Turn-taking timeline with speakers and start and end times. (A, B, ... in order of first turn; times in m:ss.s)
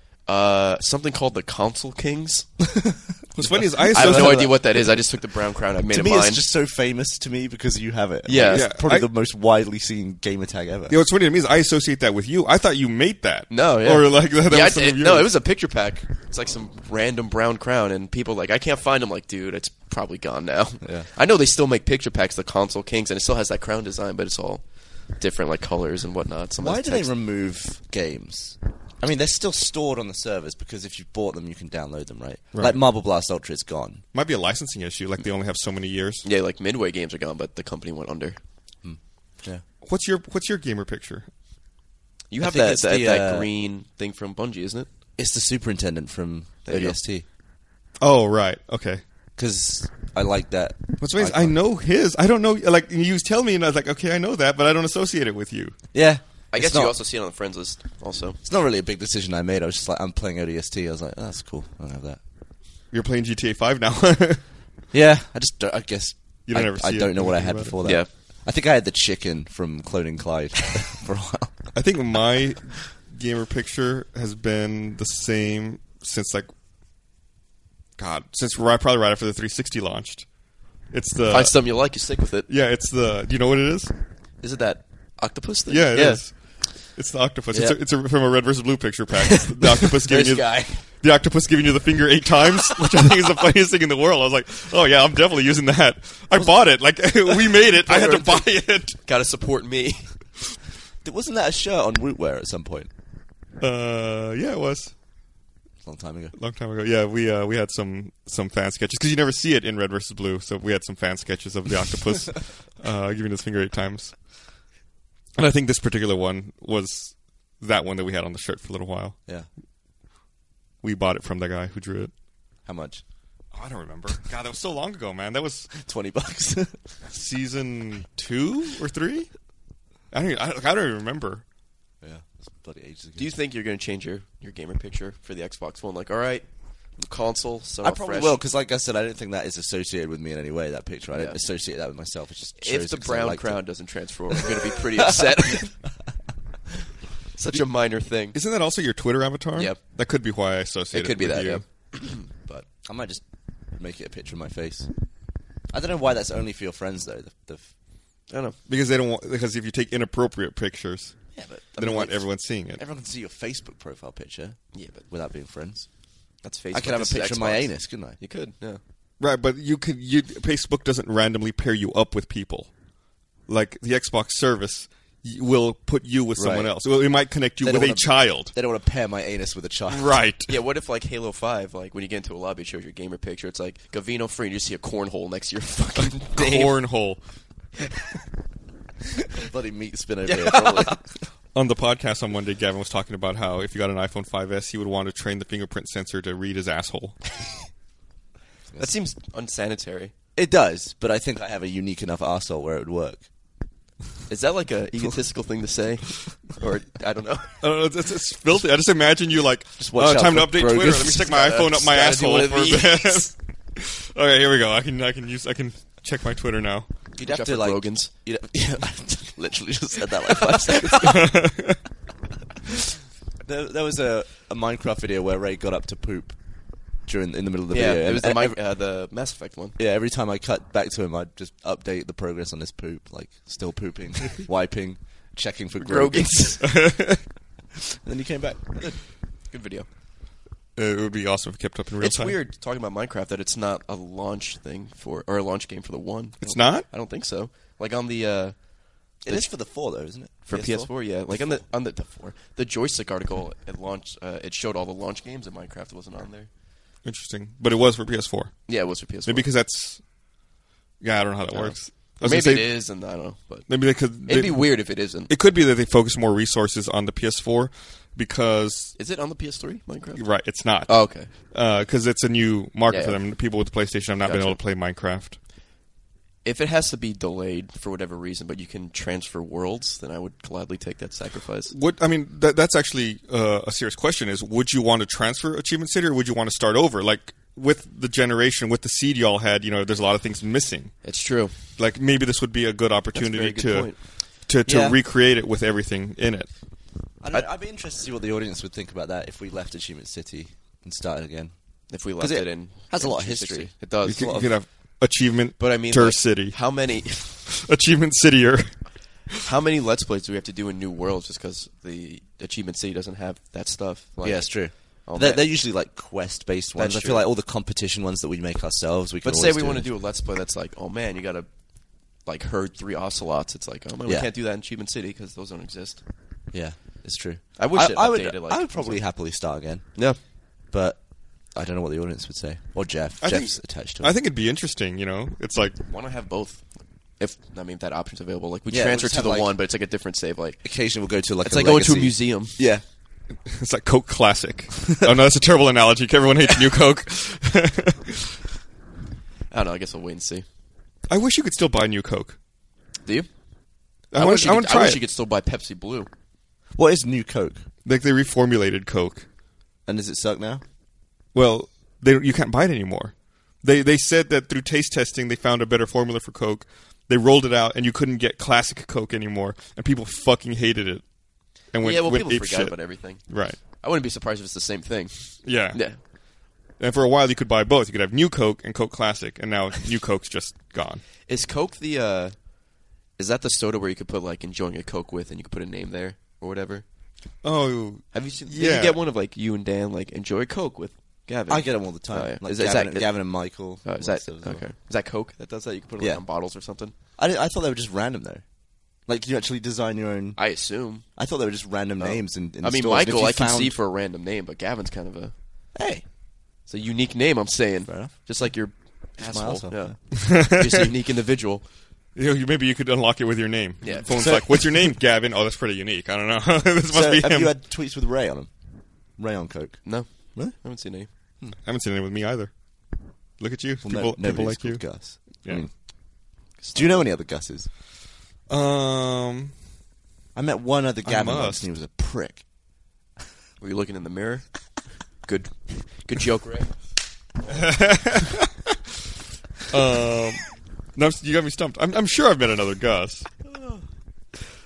0:00.2-0:02.5 A
0:02.7-0:05.0 B
0:03.3-0:04.6 C
0:03.9-0:06.4 A
0:05.9-0:11.0 B
0:08.2-0:08.7 A
0:08.5-0:09.1 C
0:10.9-0:15.3 C
0:13.5-0:24.6 A
0:20.8-0:21.1 B
0:25.2-0:27.1 A
0:26.6-0:34.0 B
0:32.5-0:32.8 C
0:34.1-0:36.2 C
0:36.2-0:38.4 A
0:38.8-0:39.6 B
0:39.8-0:41.3 C
0:42.3-0:44.9 A
0:42.4-0:43.5 B
0:45.2-0:47.2 B
0:46.6-0:47.0 A
0:48.0-0:49.0 C
0:49.4-0:51.6 B
0:51.0-0:55.8 C
0:55.9-0:57.0 B
0:56.5-0:58.4 A
0:58.4-1:02.2 B
1:02.9-1:04.4 C
1:04.9-1:11.5 B
1:06.5-1:07.8 C
1:11.7-1:16.5 C
1:18.0-1:20.2 C
1:20.9-1:21.5 C
1:21.3-1:22.5 A
1:22.5-1:23.9 C
1:24.4-1:26.2 A
1:25.7-1:26.3 C
1:26.9-1:39.0 C
1:29.3-1:30.8 A
1:37.8-1:38.4 A
1:39.0-1:40.1 A
1:41.0-1:42.9 B
1:43.6-1:44.9 C
1:45.8-1:46.3 B
1:46.4-1:54.2 C
1:55.4-1:59.2 C
2:00.8-2:02.1 C
2:02.6-2:03.0 B
2:03.5-2:05.7 C
2:05.7-2:06.8 B
2:07.1-2:09.3 C
2:10.1-2:11.4 C
2:12.0-2:13.3 B
2:13.2-2:18.4 A
2:17.8-2:23.6 B
2:21.1-2:21.4 A
2:22.6-2:25.7 A
2:24.3-2:25.7 B
2:27.3-2:28.4 A
2:28.3-2:31.6 C
2:30.9-2:32.2 A
2:32.4-2:33.2 B
2:33.7-2:34.9 B
2:35.7-2:37.7 B
2:38.3-2:38.6 A
2:38.7-2:41.2 C
2:41.3-2:42.2 B
2:41.8-2:42.1 A
2:41.8-2:42.8 C
2:42.7-2:45.9 B
2:44.7-2:45.0 A
2:46.4-2:48.8 A
2:46.7-2:48.2 B
2:49.2-2:52.7 C
2:53.5-2:58.5 C
2:56.4-2:56.7 B
2:57.6-3:00.2 B
2:59.9-3:00.5 C
3:00.5-3:06.7 A
3:06.0-3:07.2 C
3:09.3-3:11.0 B
3:10.3-3:11.0 A
3:11.5-3:17.2 C
3:18.8-3:20.1 A
3:20.4-3:23.2 B
3:24.3-3:27.6 A
3:27.6-3:36.9 C
3:29.8-3:31.3 B
3:31.1-3:33.3 A
3:37.2-3:41.3 B
3:37.2-3:38.1 A
3:39.8-3:41.3 A
3:41.0-3:41.8 C
3:43.4-3:46.4 B
3:47.0-3:48.6 B
3:47.7-3:49.8 A
3:49.8-3:56.6 B
3:55.8-3:56.7 A
3:56.6-3:57.2 C
3:57.9-3:59.0 B
3:59.5-3:59.9 A
4:00.8-4:02.4 C
4:02.0-4:08.6 A
4:06.4-4:06.8 C
4:09.2-4:11.6 B
4:10.4-4:16.5 A
4:17.0-4:18.5 C
4:18.7-4:19.4 A
4:19.2-4:20.0 C
4:21.0-4:22.7 C
4:21.5-4:23.7 A
4:23.7-4:24.7 C
4:24.2-4:25.3 A
4:25.3-4:28.9 C
4:29.0-4:30.2 A
4:30.2-4:35.4 C
4:30.9-4:31.3 A
4:32.9-4:33.2 A
4:34.2-4:34.6 A
4:36.4-4:41.7 A
4:41.7-4:50.9 C
4:51.0-4:51.5 A
4:51.8-4:53.9 C
4:53.1-4:54.0 A
4:54.4-4:56.5 C
4:54.6-4:55.0 B
4:57.2-5:01.5 B
5:01.9-5:04.5 A
5:02.2-5:03.7 B
5:04.0-5:06.6 C
5:05.6-5:07.4 A
5:07.4-5:08.8 C
5:09.4-5:15.5 A
5:14.2-5:19.9 B
5:16.8-5:17.2 A
5:19.2-5:21.5 A
5:22.2-5:26.0 A
5:26.5-5:29.9 B
5:27.6-5:29.0 A
5:30.7-5:31.0 B
5:31.5-5:34.1 B
5:33.2-5:35.8 C
5:35.8-5:36.6 A
5:37.2-5:40.6 A
5:38.7-5:39.5 B
5:40.6-5:42.8 B
5:41.4-5:42.6 A
5:43.4-5:48.4 C
5:49.5-5:50.4 A
5:51.1-5:52.4 C
5:54.1-5:55.0 C
5:54.1-5:56.1 A
5:56.7-5:57.6 B
5:57.8-5:59.2 C
5:59.8-6:00.6 B
6:01.3-6:11.0 C
6:11.7-6:13.6 C
6:11.8-6:16.0 A
6:15.4-6:15.8 C
6:16.8-6:21.0 C
6:21.3-6:22.4 A
6:23.2-6:26.8 A
6:27.4-6:29.0 C
6:28.1-6:33.1 A
6:31.5-6:34.6 B
6:33.8-6:36.9 A
6:37.2-6:38.4 B
6:39.0-6:40.4 B
6:40.4-6:41.0 A
6:41.2-6:43.8 B
6:42.0-6:45.3 A
6:45.7-6:46.0 B
6:46.7-6:51.6 A
6:47.9-6:48.1 B
6:49.2-6:49.9 B
6:50.2-6:50.9 C
6:52.2-6:57.5 C
6:53.8-6:54.1 A
6:54.1-6:54.8 B
6:56.9-6:58.5 B
6:59.2-6:59.8 B
6:59.8-7:01.1 A
7:01.6-7:02.5 C
7:03.4-7:05.6 C
7:03.8-7:05.7 B
7:06.6-7:07.1 A
7:06.7-7:07.7 B
7:08.5-7:09.5 C
7:10.3-7:12.4 B
7:11.0-7:11.6 C
7:13.6-7:14.5 A
7:15.2-7:16.7 A
7:17.5-7:18.7 C
7:19.6-7:23.3 C
7:23.4-7:23.8 A